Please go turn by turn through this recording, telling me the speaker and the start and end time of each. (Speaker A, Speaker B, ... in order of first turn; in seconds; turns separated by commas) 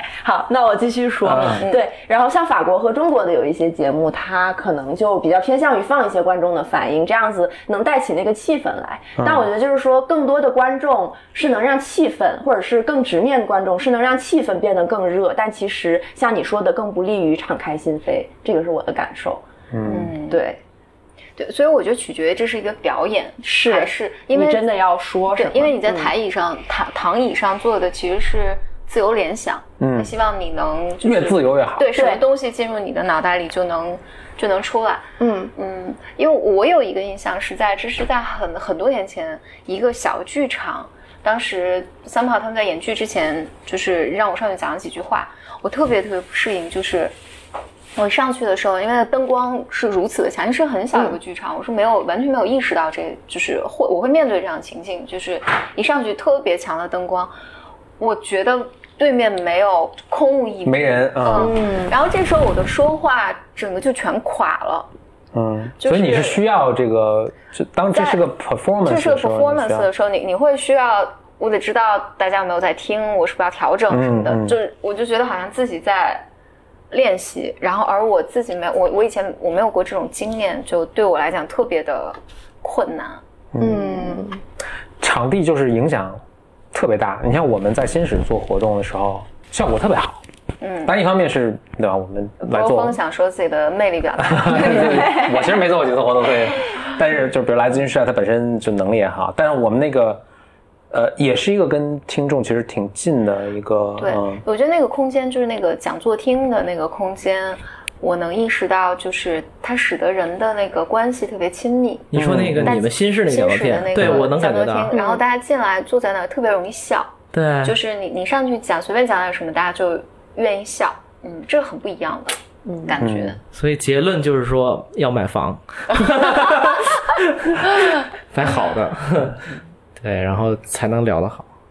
Speaker A: 0.2-19.4, Speaker B: 1.2-1.6, Speaker B: 9.2-9.4, Speaker B: 19.7-20.1, Speaker C: 19.9-20.4, Speaker A: 20.1-20.6, Speaker C: 21.4-24.6, Speaker A: 23.4-26.1, Speaker C: 25.3-47.1, Speaker B: 29.8-30.1, Speaker B: 31.0-31.9, Speaker A: 31.9-32.2, Speaker A: 35.2-35.5, Speaker C: 47.9-57.3, Speaker C: 58.0-64.9, Speaker B: 60.6-61.5, Speaker A: 61.3-61.9, Speaker B: 65.3-69.9, Speaker C: 65.8-66.4, Speaker C: 67.9-68.2, Speaker C: 68.8-76.2, Speaker B: 73.9-74.6, Speaker C: 76.9-83.2, Speaker B: 83.5-83.9, Speaker A: 83.6-84.4, Speaker B: 85.0-86.2, Speaker B: 86.7-90.2, Speaker C: 90.6-90.9, Speaker B: 90.8-93.0, Speaker C: 92.4-95.5, Speaker B: 94.2-100.2, Speaker B: 100.9-104.4, Speaker C: 104.0-123.4, Speaker D: 112.1-114.9, Speaker B: 112.1-112.8, Speaker A: 114.9-115.2, Speaker D: 117.3-117.8, Speaker A: 122.7-123.0, Speaker B: 123.0-123.3, Speaker D: 123.5-129.4, Speaker D: 130.0-131.5